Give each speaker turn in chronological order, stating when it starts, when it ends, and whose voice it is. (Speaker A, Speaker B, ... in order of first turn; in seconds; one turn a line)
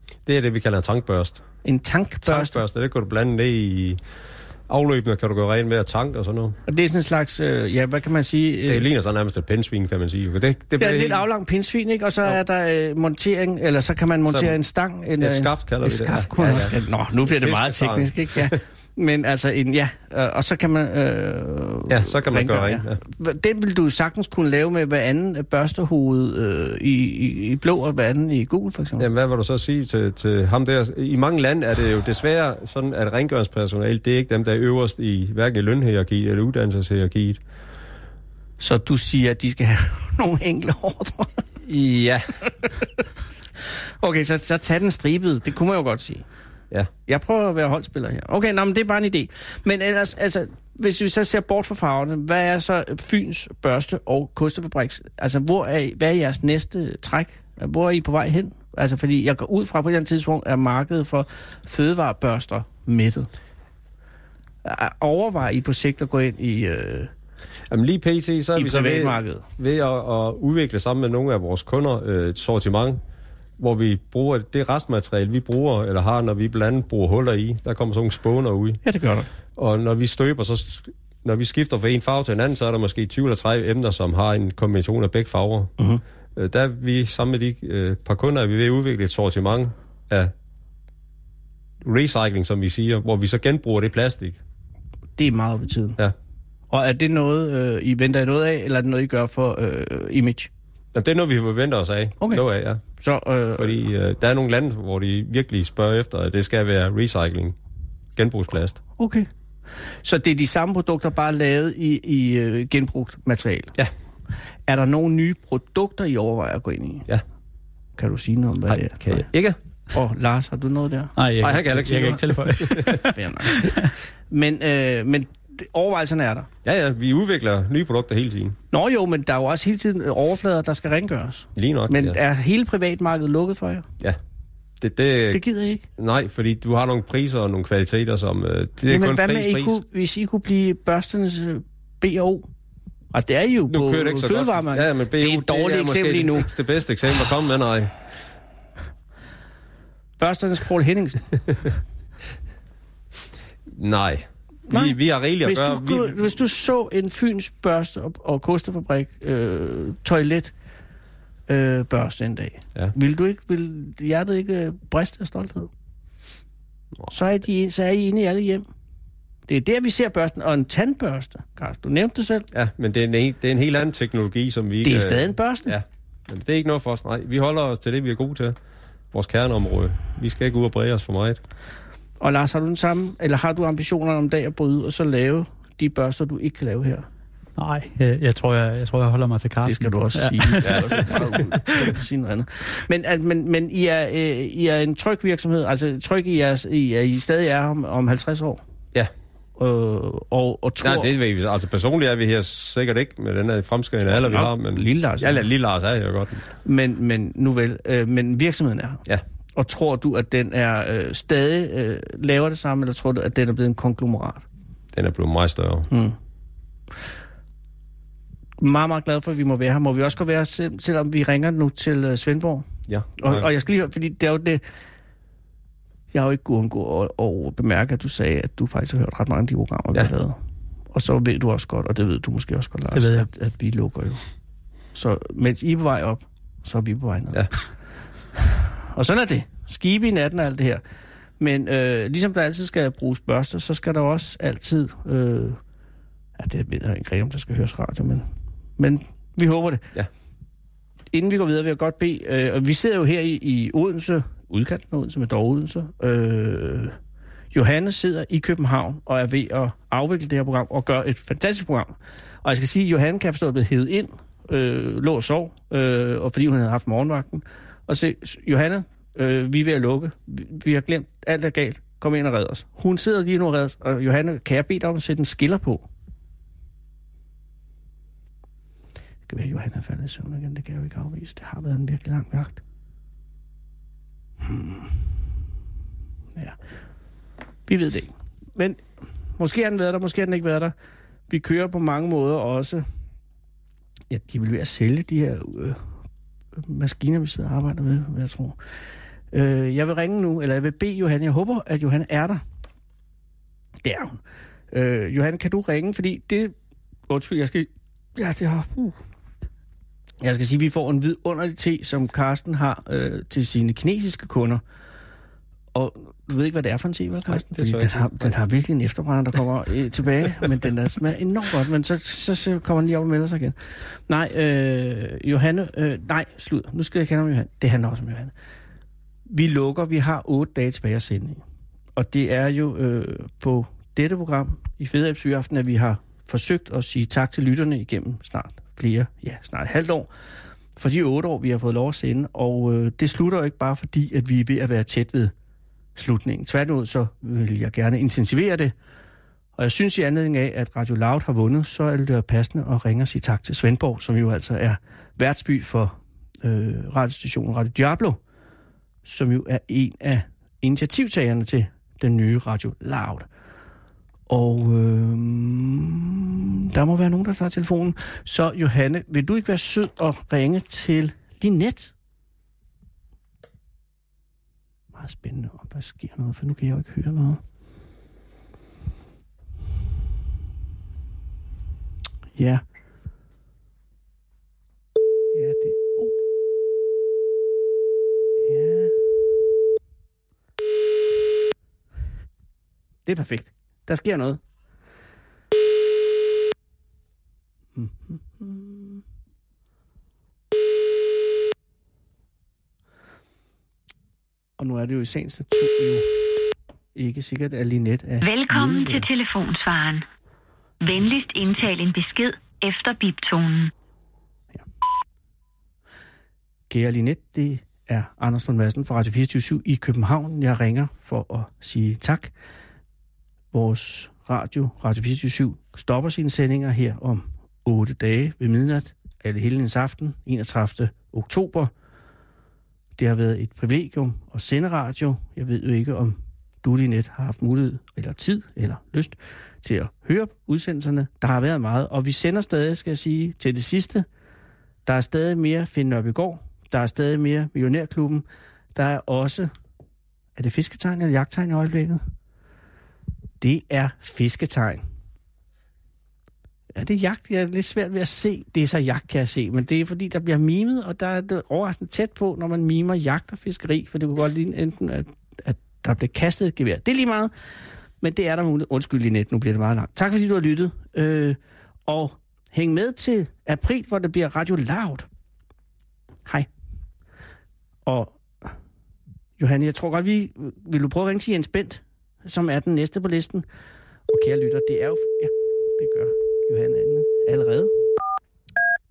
Speaker A: 0.2-1.4
Speaker B: 1.6-2.6
Speaker A: 2.2-4.0
Speaker A: 4.7-6.6
Speaker B: 6.7-8.8
Speaker A: 8.7-11.2
Speaker B: 10.8-29.1
Speaker A: 14.3-14.6
Speaker A: 15.2-18.6
Speaker A: 21.9-23.0
Speaker A: 29.0-37.4
Speaker B: 38.6-41.4
Speaker A: 41.6-42.3
Speaker B: 44.0-46.2
Speaker B: 47.1-63.3
Speaker B: 64.6-67.1
Speaker A: 67.7-73.0
Speaker B: 68.5-69.4
Speaker A: 73.6-78.8
Speaker B: 78.8-79.3
Speaker A: 79.5-85.7
Speaker A: 86.3-90.3
Speaker A: 91.8-94.4
Speaker B: 95.2-96.0
Speaker B: 96.7-100.5
Speaker A: 100.9-102.8
Speaker B: 103.0-103.7
Speaker A: 103.6-107.5
Speaker A: 108.2-108.8
Speaker B: 109.0-109.3
Speaker B: 110.0-113.7
Speaker B: 114.7-117.1
Speaker B: 118.0-119.3
Speaker A: 118.7-119.6
Speaker B: 119.9-121.2
Speaker C: 121.2-123.9
Speaker A: 121.4-123.0
Speaker B: 122.9-126.5
Speaker A: 126.6-128.6
Speaker B: 128.7-133.9
Speaker A: 131.6-132.2
Speaker A: 134.8-135.4
Speaker B: 135.3-135.8
Speaker A: 135.9-139.8
Speaker B: 138.8-142.5
Speaker B: 143.1-146.5
Speaker A: 143.7-147.9
Speaker B: 150.2-151.3
Speaker A: 153.7-156.3
Speaker B: 154.7-160.5
Speaker B: 161.5-165.7
Speaker B: 167.1-168.6
Speaker B: 169.5-172.5
Speaker A: 172.5-178.6
Speaker B: 174.8-175.8
Speaker A: 179.1-181.4
Speaker B: 182.2-187.1
Speaker C: 187.6-191.4
Speaker B: 189.6-198.6
Speaker A: 190.6-191.4
Speaker B: 199.6-201.1
Speaker A: 200.8-206.4
Speaker B: 204.1-205.5
Speaker B: 206.6-209.0
Speaker B: 209.5-214.4
Speaker A: 214.9-215.9
Speaker B: 215.9-216.2
Speaker B: 218.6-222.7
Speaker A: 222.9-223.5
Speaker B: 223.2-224.6
Speaker B: 226.1-230.4
Speaker B: 230.9-234.2
Speaker C: 232.9-233.2
Speaker B: 234.9-237.5
Speaker B: 238.3-240.8
Speaker B: 241.4-245.6
Speaker B: 246.4-248.2
Speaker B: 248.8-249.9
Speaker B: 251.1-256.9
Speaker B: 257.5-261.9
Speaker B: 262.4-275.9
Speaker B: 279.3-282.6
Speaker B: 284.4-284.9
Speaker B: 287.7-288.8
Speaker B: 289.4-290.7
Speaker B: 291.3-292.8
Speaker B: 294.1-295.8
Speaker B: 296.6-298.6
Speaker B: 299.3-302.4
Speaker B: 303.8-304.2
Speaker B: 304.7-306.5
Speaker B: 307.1-309.0
Speaker B: 310.2-314.6
Speaker B: 315.7-328.3
Speaker A: 317.3-318.4
Speaker B: 329.3-331.4
Speaker B: 331.9-340.1
Speaker B: 340.8-345.3
Speaker B: 345.9-348.7
Speaker B: 349.6-358.2
Speaker B: 359.0-363.3
Speaker B: 364.3-371.9
Speaker B: 374.9-377.4
Speaker B: 382.4-382.6
Speaker B: 385.3-386.1
Speaker B: 388.4-388.9
Speaker B: 393.1-394.4
Speaker B: 397.7-399.0
Speaker B: 404.6-406.1
Speaker B: 406.9-409.1
Speaker D: 408.2-410.1
Speaker D: 410.8-413.7
Speaker B: 416.7-422.3
Speaker B: 423.5-431.7
Speaker B: 433.0-444.1
Speaker B: 444.9-448.2
Speaker B: 448.7-449.5
Speaker B: 450.4-452.0
Speaker B: 453.4-454.8
Speaker B: 456.7-467.3
Speaker B: 468.0-475.1
Speaker B: 477.9-478.6
Speaker B: 479.4-483.4
Speaker B: 484.1-487.7